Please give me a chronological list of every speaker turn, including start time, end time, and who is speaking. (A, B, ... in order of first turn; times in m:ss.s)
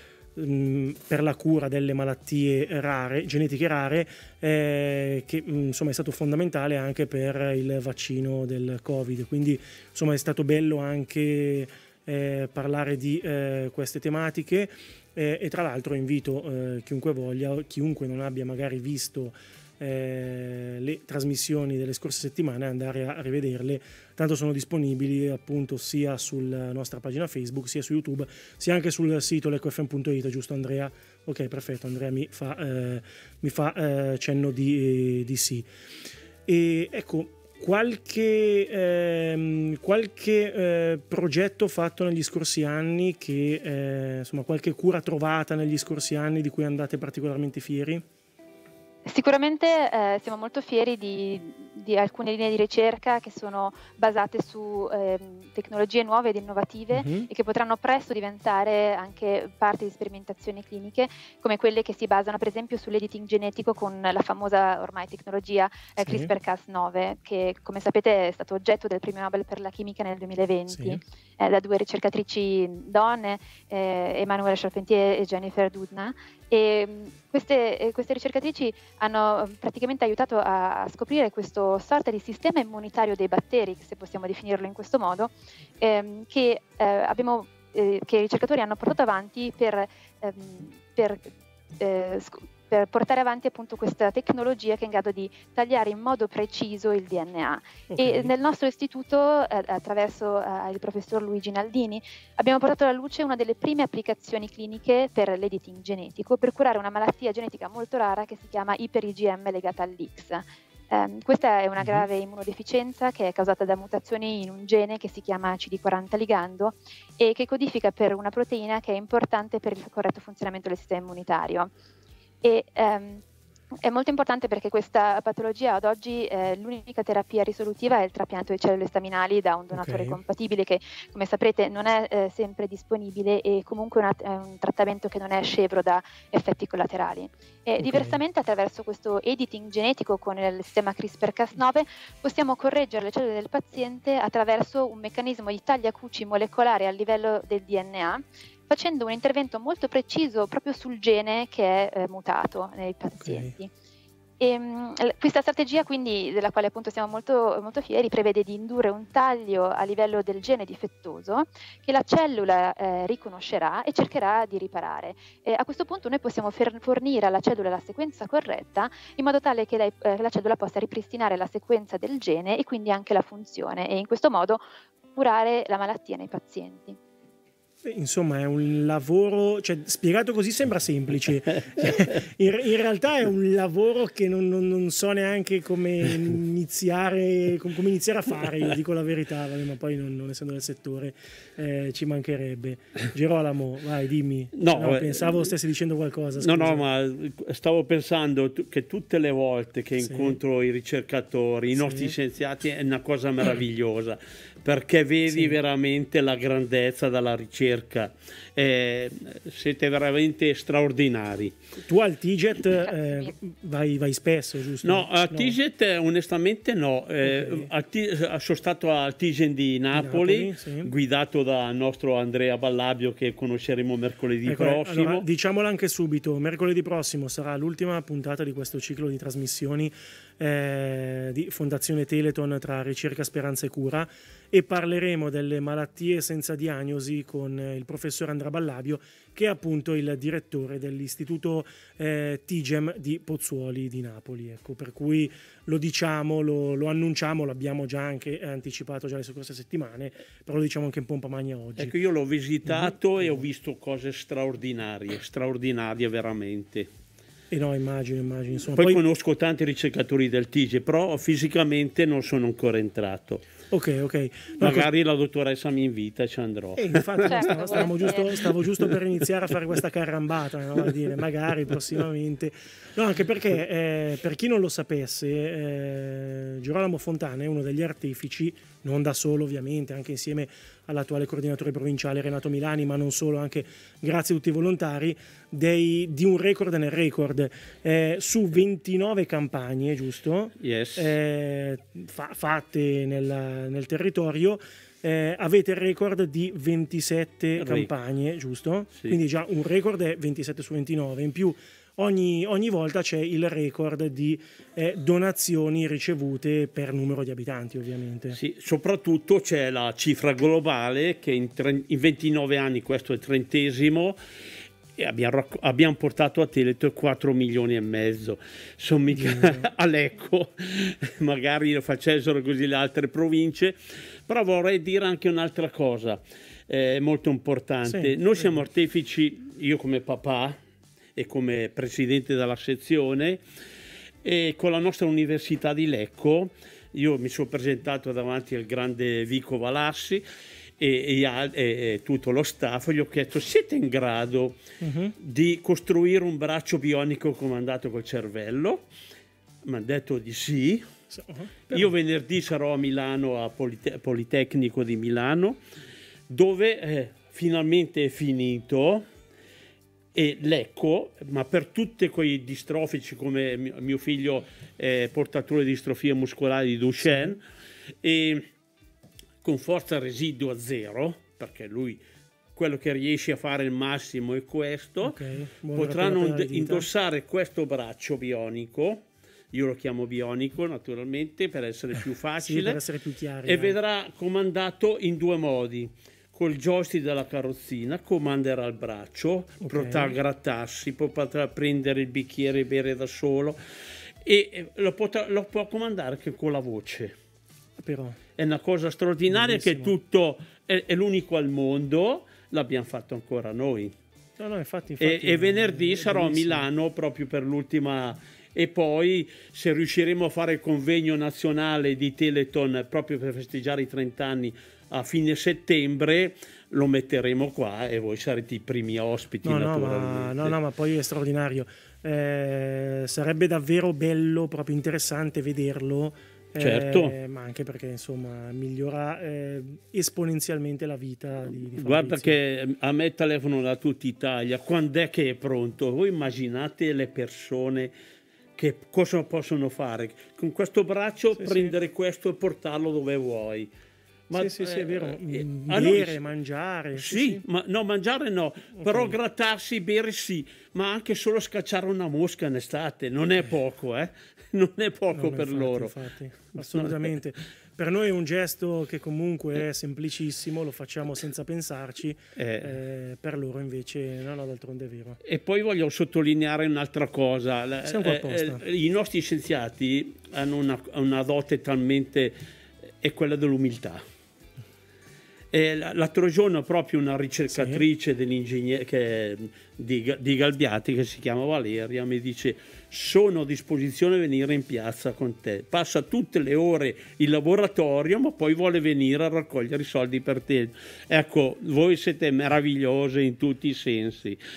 0:00.4-0:35.7 A
0:36.5-0:48.0 A
0:49.1-2:01.7 B
0:56.9-0:57.3 A
1:06.0-1:06.3 A
1:10.7-1:11.0 A
1:37.9-1:38.3 A
1:51.8-1:52.0 A
2:02.4-2:03.2 B
2:03.8-2:33.7 B
2:09.7-2:10.2 A
2:17.8-2:18.2 A
2:33.2-2:33.5 A
2:34.4-2:57.0 B
2:57.8-3:16.8 A
3:14.6-3:15.5 C
3:16.4-3:31.6 C
3:20.0-3:20.4 A
3:21.8-3:22.2 A
3:25.3-3:25.6 A
3:31.8-3:35.6 A
3:34.8-3:45.2 C
3:37.2-3:37.7 A
3:39.9-3:40.9 A
3:44.4-4:12.0 A
4:11.8-4:16.9 C
4:12.6-4:13.4 A
4:17.5-4:19.0 A
4:18.8-4:23.5 C
4:23.7-4:24.9 A
4:24.6-4:28.0 C
4:26.8-5:08.4 A
4:27.3-4:28.3 B
4:50.6-4:51.1 C
4:57.6-4:57.9 C
5:08.3-5:14.2 C
5:15.0-5:30.6 C
5:19.1-5:19.7 A
5:27.8-5:28.4 A
5:31.2-5:33.4 C
5:34.2-5:40.2 C
5:40.8-5:44.6 C
5:44.8-5:45.2 A
5:45.2-5:48.9 C
5:49.6-5:50.9 C
5:51.1-5:51.9 A
5:51.7-5:55.6 C
5:56.3-5:59.0 C
6:00.1-6:07.4 C
6:07.0-6:07.4 A
6:08.0-6:08.5 C
6:09.4-6:12.0 C
6:12.6-6:15.2 C
6:15.0-6:16.9 A
6:15.8-6:22.8 C
6:22.4-6:23.8 A
6:23.5-6:33.6 C
6:29.6-6:30.2 A
6:34.2-6:37.2 C
6:37.8-6:38.2 A
6:38.4-6:44.0 C
6:39.3-6:40.0 A
6:44.4-6:46.7 A
6:45.0-7:00.6 C
6:59.4-7:12.4 A
7:06.6-7:07.2 C
7:11.7-7:17.9 C
7:18.6-7:23.7 C
7:21.4-7:21.8 A
7:24.3-7:26.2 C
7:24.3-7:27.4 A
7:26.9-7:35.9 C
7:28.8-7:29.2 A
7:35.1-7:45.2 A
7:36.6-7:37.1 C
7:42.4-7:42.7 C
7:45.2-7:52.4 C
7:47.8-7:48.6 A
7:53.0-7:54.0 C
7:55.5-8:14.4 C
7:57.5-7:57.8 A